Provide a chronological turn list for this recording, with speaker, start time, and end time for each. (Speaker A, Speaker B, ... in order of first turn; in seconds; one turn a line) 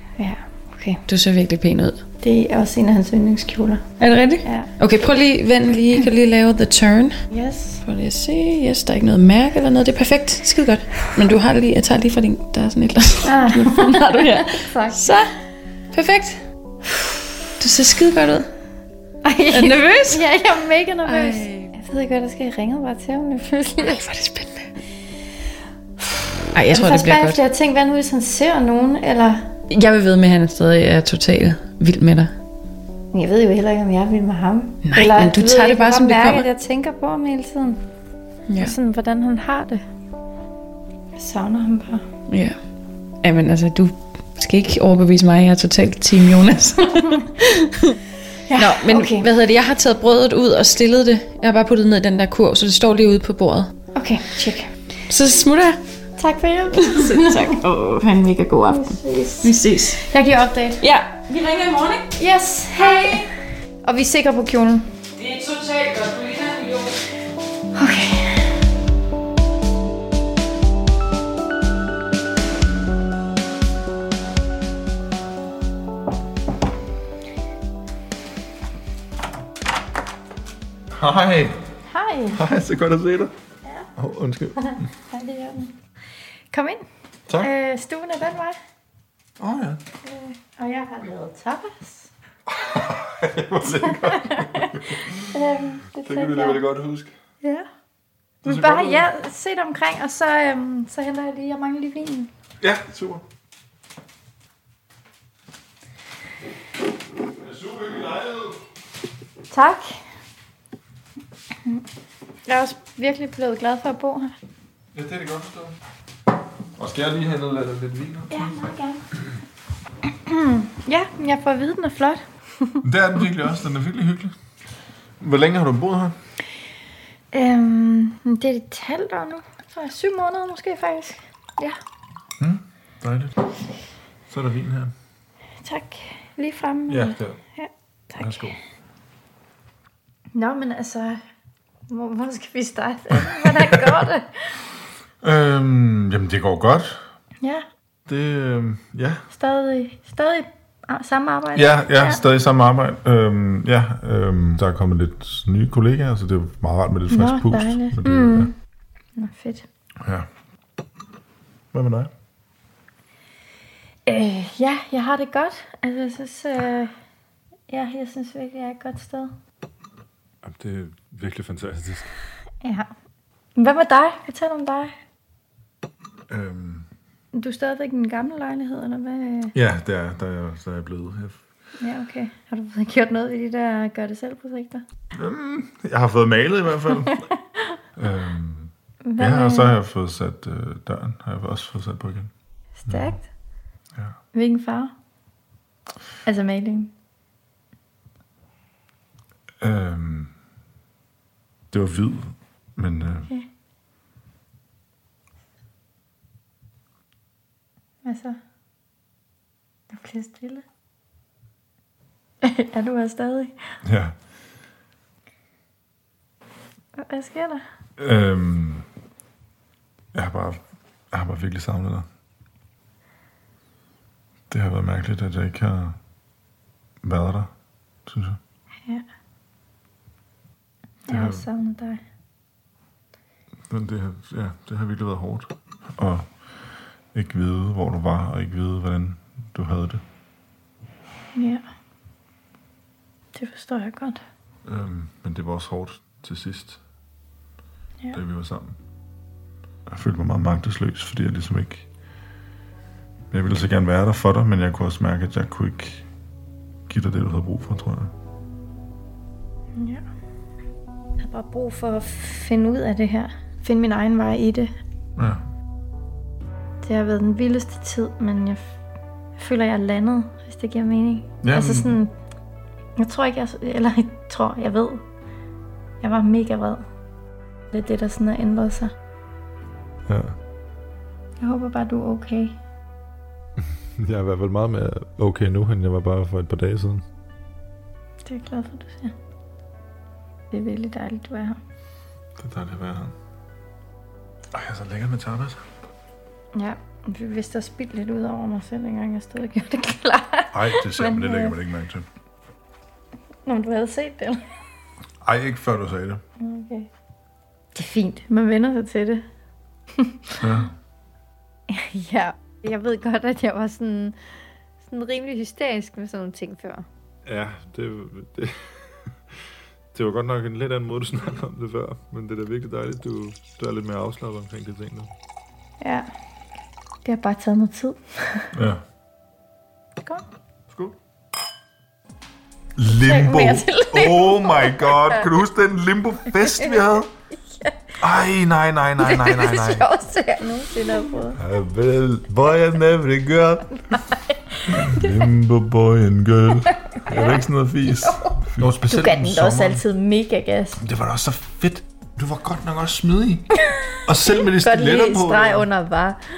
Speaker A: 0.2-1.0
Speaker B: 1.1-2.0
Speaker A: 2.2-3.9
Speaker B: 4.0-7.2
Speaker A: 4.4-4.7
Speaker A: 7.3-7.8
Speaker B: 7.8-15.3
Speaker A: 13.2-15.2
Speaker B: 15.9-16.4
Speaker B: 17.6-18.5
Speaker A: 19.2-24.0
Speaker B: 19.5-20.2
Speaker B: 21.1-21.7
Speaker B: 23.8-24.7
Speaker B: 26.5-27.4
Speaker A: 26.7-29.5
Speaker B: 29.7-32.3
Speaker A: 33.1-37.8
Speaker B: 34.9-36.5
Speaker B: 38.5-38.7
Speaker A: 38.6-39.8
Speaker A: 41.1-42.1
Speaker B: 42.3-42.6
Speaker B: 43.2-48.0
Speaker A: 48.5-49.3
Speaker B: 48.6-53.7
Speaker A: 54.0-54.7
Speaker B: 55.1-55.8
Speaker A: 56.2-57.6
Speaker B: 56.8-60.0
Speaker A: 58.7-60.8
Speaker B: 60.8-62.1
Speaker A: 62.2-63.2
Speaker A: 63.8-64.9
Speaker B: 65.2-67.0
Speaker A: 67.8-68.5
Speaker C: 80.9-81.6
Speaker A: 81.9-82.4
Speaker C: 82.3-83.3
Speaker C: 84.0-84.8
Speaker A: 84.6-85.7
Speaker A: 86.5-86.8
Speaker A: 87.4-88.6
Speaker C: 89.4-89.8
Speaker A: 90.0-92.1
Speaker C: 92.5-95.2
Speaker A: 93.8-94.8
Speaker A: 95.3-96.7
Speaker C: 96.0-97.1
Speaker A: 97.4-97.7
Speaker A: 98.4-102.3
Speaker C: 98.5-99.1
Speaker C: 102.6-103.2
Speaker C: 107.4-108.6
Speaker A: 109.5-109.9
Speaker A: 112.5-114.3
Speaker C: 115.0-115.8
Speaker C: 116.8-118.7
Speaker A: 118.3-119.0
Speaker A: 120.2-122.8
Speaker C: 122.8-124.3
Speaker C: 125.2-126.2
Speaker A: 127.3-131.8
Speaker C: 132.4-133.3
Speaker C: 134.3-134.9
Speaker A: 135.6-138.5
Speaker C: 136.9-137.4
Speaker C: 138.2-138.6
Speaker A: 140.3-141.2
Speaker A: 141.9-144.3
Speaker C: 143.4-143.9
Speaker C: 145.2-147.0
Speaker C: 148.1-149.2
Speaker A: 149.3-152.2
Speaker C: 151.6-158.5
Speaker A: 157.1-158.5
Speaker A: 159.2-159.7
Speaker C: 161.7-162.1
Speaker A: 164.1-166.9
Speaker A: 167.7-169.3
Speaker C: 170.4-172.1
Speaker A: 172.6-172.9
Speaker A: 173.6-174.9
Speaker C: 176.3-176.9
Speaker A: 177.3-179.5
Speaker C: 179.5-181.4
Speaker A: 181.8-184.8
Speaker C: 185.2-187.2
Speaker C: 188.0-192.3
Speaker A: 189.1-189.8
Speaker A: 192.8-193.3
Speaker C: 192.9-193.2
Speaker A: 194.3-194.9
Speaker A: 196.2-196.9
Speaker C: 199.6-200.3
Speaker C: 201.7-203.3
Speaker A: 208.1-208.4
Speaker A: 209.9-210.6
Speaker A: 212.4-213.5
Speaker C: 213.9-214.2
Speaker A: 217.0-217.6
Speaker C: 218.0-218.8
Speaker C: 220.1-220.6
Speaker C: 221.1-222.1
Speaker C: 224.5-226.0
Speaker C: 227.0-227.5
Speaker C: 228.1-228.4
Speaker C: 231.1-231.5
Speaker A: 231.1-232.0
Speaker C: 233.7-236.4
Speaker C: 237.1-240.0
Speaker A: 241.3-241.6
Speaker A: 243.3-244.2
Speaker C: 244.7-246.8
Speaker C: 248.1-248.8
Speaker C: 249.9-251.9
Speaker C: 253.3-256.1
Speaker C: 256.9-258.1
Speaker A: 259.8-260.0
Speaker A: 261.2-264.7
Speaker C: 265.2-265.4
Speaker A: 266.8-268.6
Speaker A: 269.4-272.1
Speaker C: 271.4-271.9
Speaker A: 273.0-275.0
Speaker A: 276.0-276.8
Speaker A: 277.7-278.9
Speaker C: 280.1-280.4
Speaker A: 281.4-282.6
Speaker C: 284.0-287.1
Speaker A: 288.2-289.1
Speaker A: 290.5-291.6
Speaker C: 292.4-293.1
Speaker C: 294.5-295.6
Speaker A: 296.5-301.6
Speaker C: 300.5-302.1
Speaker A: 303.5-304.4
Speaker C: 305.2-306.2
Speaker A: 306.4-306.9
Speaker A: 307.8-309.2
Speaker C: 310.4-310.7
Speaker A: 311.7-314.2
Speaker A: 314.8-316.9
Speaker C: 317.3-318.6
Speaker C: 319.9-325.1
Speaker A: 325.8-326.1
Speaker A: 327.1-328.5
Speaker C: 328.5-328.8
Speaker C: 330.7-330.9
Speaker C: 332.8-337.1
Speaker A: 333.0-335.3
Speaker A: 336.4-336.8
Speaker C: 338.0-339.9
Speaker A: 339.0-341.4
Speaker C: 341.4-343.7
Speaker C: 344.7-349.8
Speaker A: 344.8-345.2
Speaker A: 347.0-348.3
Speaker A: 348.9-350.8
Speaker C: 350.8-353.5
Speaker C: 354.1-355.7
Speaker A: 354.6-356.2